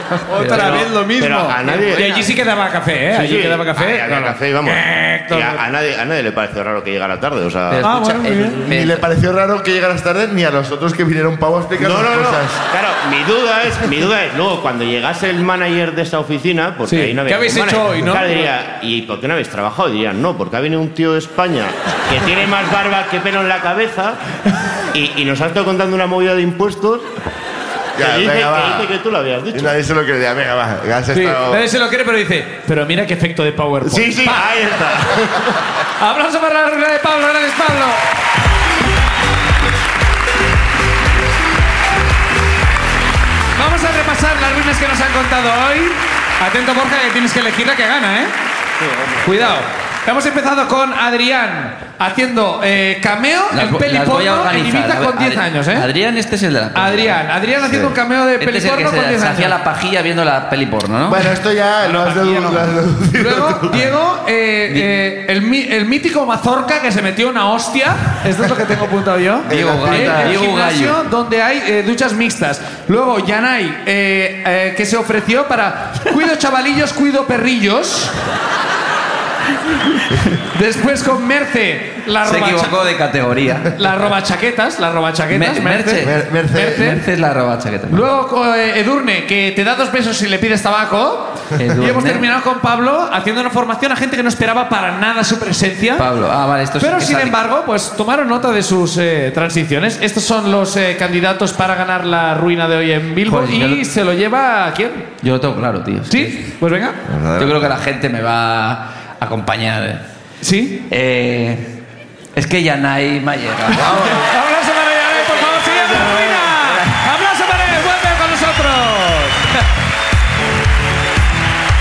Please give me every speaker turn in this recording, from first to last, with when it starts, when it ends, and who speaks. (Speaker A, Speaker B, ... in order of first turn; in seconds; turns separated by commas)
Speaker A: 0.3-5.6, Speaker B: 0.4-0.9, Speaker C: 0.5-2.3, Speaker B: 1.6-2.4, Speaker C: 3.1-7.8, Speaker B: 7.7-9.1, Speaker A: 7.8-8.6, Speaker D: 8.7-12.6, Speaker C: 11.8-24.2, Speaker A: 16.9-18.5, Speaker C: 24.9-27.1, Speaker D: 27.9-28.9, Speaker C: 28.0-29.8, Speaker D: 29.5-31.7, Speaker A: 31.1-34.6, Speaker C: 33.8-35.5, Speaker A: 36.0-38.0, Speaker A: 43.5-48.3, Speaker A: 49.2-55.9, Speaker B: 53.5-57.2, Speaker A: 56.7-59.5, Speaker D: 57.6-58.0, Speaker B: 58.4-61.2, Speaker D: 61.0-63.9, Speaker A: 61.8-78.1, Speaker B: 64.7-64.9, Speaker D: 69.5-70.4, Speaker B: 69.5-71.0, Speaker A: 80.3-82.8, Speaker B: 82.2-83.7, Speaker A: 83.7-87.0, Speaker B: 85.3-88.1, Speaker D: 86.0-86.9, Speaker A: 87.9-96.1, Speaker B: 91.6-92.3, Speaker B: 96.0-97.4, Speaker A: 96.8-105.1, Speaker B: 103.2-103.8, Speaker B: 105.2-106.4, Speaker A: 106.1-107.0, Speaker D: 107.0-107.8, Speaker B: 107.4-110.0, Speaker A: 110.4-110.8, Speaker B: 110.9-111.8, Speaker B: 112.3-114.3, Speaker A: 113.8-119.5, Speaker D: 113.8-114.1, Speaker B: 115.1-116.9